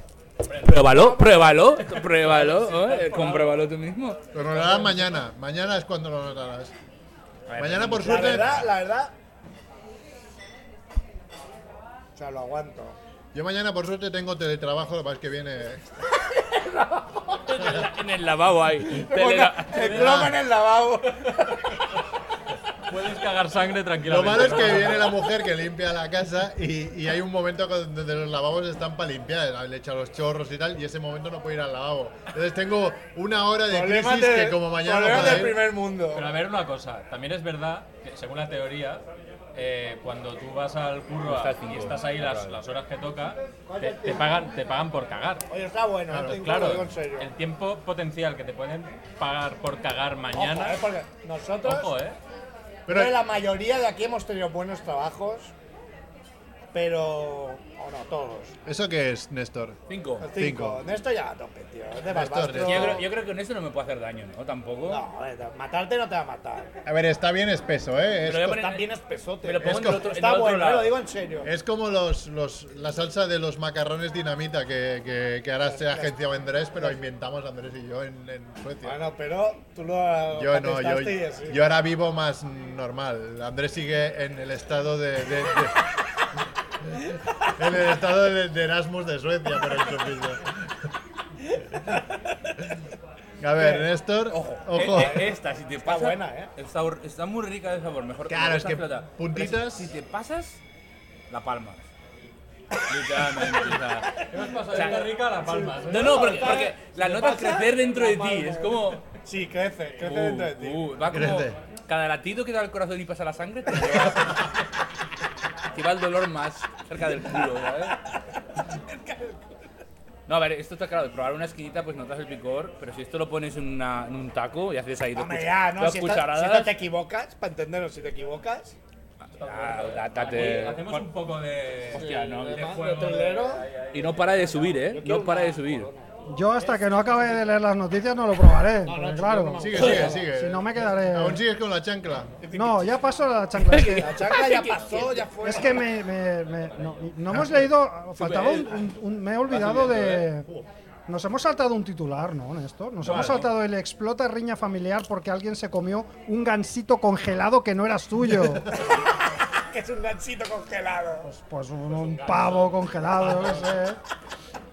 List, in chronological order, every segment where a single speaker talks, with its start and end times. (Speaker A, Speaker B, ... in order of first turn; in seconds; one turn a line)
Speaker A: 0.5-0.8
Speaker B: 0.7-4.2
Speaker C: 0.7-1.6
Speaker A: 1.7-3.7
Speaker D: 4.3-6.7
Speaker A: 4.4-5.2
Speaker B: 7.5-8.6
Speaker D: 7.6-8.7
Speaker C: 7.9-9.1
Speaker C: 12.2-13.0
Speaker D: 13.3-15.8
Speaker C: 16.6-17.2
Speaker B: 17.5-20.1
Speaker D: 17.6-17.9
Speaker C: 19.0-21.4
Speaker A: 19.7-20.4
Speaker D: 20.0-20.3
Speaker A: 22.9-25.2
Speaker D: 24.1-35.6
Speaker C: 33.7-36.4
Speaker A: 36.1-39.0
Speaker A: 39.5-45.5
Speaker B: 41.2-42.6
Speaker C: 43.7-44.5
Speaker C: 45.5-47.3
Speaker D: 46.1-46.8
Speaker A: 46.2-50.9
Speaker C: 50.3-52.0
Speaker A: 51.6-52.2
Speaker D: 52.9-53.2
Speaker C: 52.9-55.5
Speaker C: 56.7-58.6
Speaker D: 58.7-59.8
Speaker B: 59.9-60.3
Speaker C: 60.2-63.1
Speaker D: 60.3-60.8
Speaker D: 62.0-63.1
Speaker B: 62.6-65.0
Speaker C: 64.9-66.7
Speaker D: 66.8-68.7
Speaker B: 68.2-68.9
Speaker C: 68.3-71.5
Speaker B: 69.4-71.0
Speaker D: 69.6-70.2
Speaker D: 71.4-79.0
Speaker C: 75.7-76.1
Speaker C: 78.8-81.6
Speaker D: 80.3-85.8
Speaker D: 87.6-90.5
Speaker D: 93.4-95.3
Speaker C: 93.6-93.9
Speaker B: 94.3-100.6
Speaker C: 95.0-96.5
Speaker D: 98.3-99.9
Speaker B: 101.3-101.8
Speaker B: 102.9-105.0
Speaker A: 103.3-106.6
Speaker C: 104.7-110.9
Speaker B: 105.9-109.0
Speaker B: 110.0-114.5
Speaker D: 111.1-111.6
Speaker B: 115.7-118.0
Speaker C: 118.9-119.4
Speaker B: 120.3-126.8
Speaker C: 125.1-128.8
Speaker A: 129.3-134.7
Speaker B: 129.4-131.2
Speaker B: 131.9-132.7
Speaker C: 131.9-133.7
Speaker B: 133.9-135.9
Speaker C: 134.8-136.1
Speaker E: 136.3-141.4
Speaker A: 136.5-137.5
Speaker C: 138.8-140.2
Speaker D: 139.6-142.4
Speaker C: 142.4-143.2
Speaker E: 142.5-144.2
Speaker B: 143.7-145.3
Speaker C: 143.7-145.8
Speaker A: 144.6-145.3
Speaker E: 145.4-150.5
Speaker A: 146.4-147.1
Speaker B: 148.2-148.8
Speaker B: 149.5-150.3
Speaker E: 151.1-158.7
Speaker D: 153.0-153.6
Speaker C: 159.7-161.3
Speaker E: 161.2-164.0
Speaker A: 161.9-163.8